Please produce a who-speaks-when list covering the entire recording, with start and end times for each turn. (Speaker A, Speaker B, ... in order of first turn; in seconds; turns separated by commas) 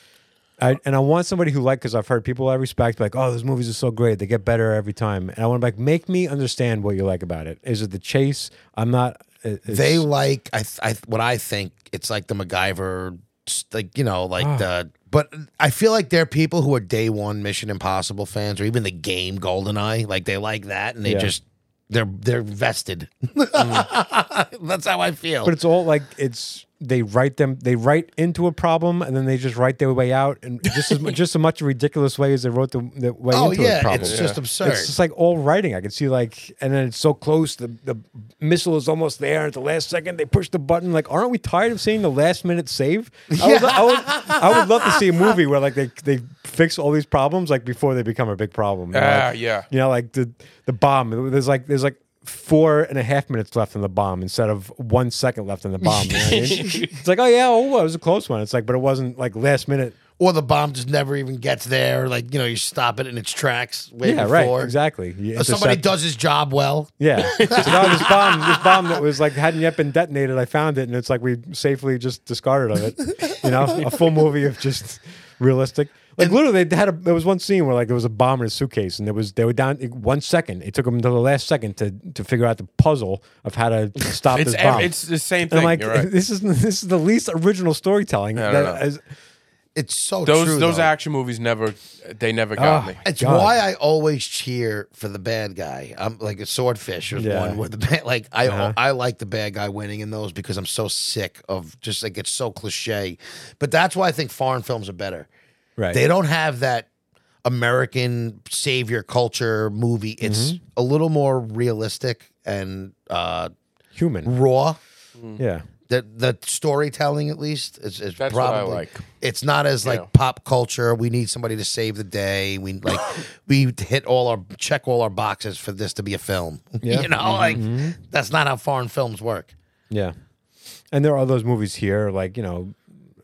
Speaker A: 0.6-10.0, Speaker B: 9.7-25.5, Speaker A: 14.4-14.7, Speaker A: 21.0-21.3, Speaker C: 23.6-23.9, Speaker A: 25.4-60.0, Speaker B: 33.3-34.9, Speaker C: 34.0-34.4, Speaker B: 43.3-45.0, Speaker C: 48.9-49.7, Speaker B: 56.0-56.6, Speaker C: 56.2-57.0, Speaker B: 60.2-64.7, Speaker A: 64.0-65.8, Speaker B: 65.3-68.7, Speaker A: 67.0-89.0, Speaker C: 67.2-68.2, Speaker C: 84.3-86.1, Speaker C: 88.3-88.8, Speaker B: 89.7-90.9, Speaker C: 90.2-93.0, Speaker A: 92.6-93.5, Speaker B: 93.0-105.3, Speaker A: 97.2-97.6, Speaker A: 98.4-98.8, Speaker B: 105.9-106.9, Speaker B: 107.4-113.5, Speaker A: 110.2-110.6, Speaker A: 114.0-114.3, Speaker B: 114.2-114.8, Speaker A: 115.4-115.7, Speaker B: 115.9-129.5, Speaker C: 118.2-119.0, Speaker C: 119.8-120.1, Speaker A: 126.8-128.0, Speaker C: 127.2-127.6, Speaker A: 129.9-130.2, Speaker A: 130.9-132.8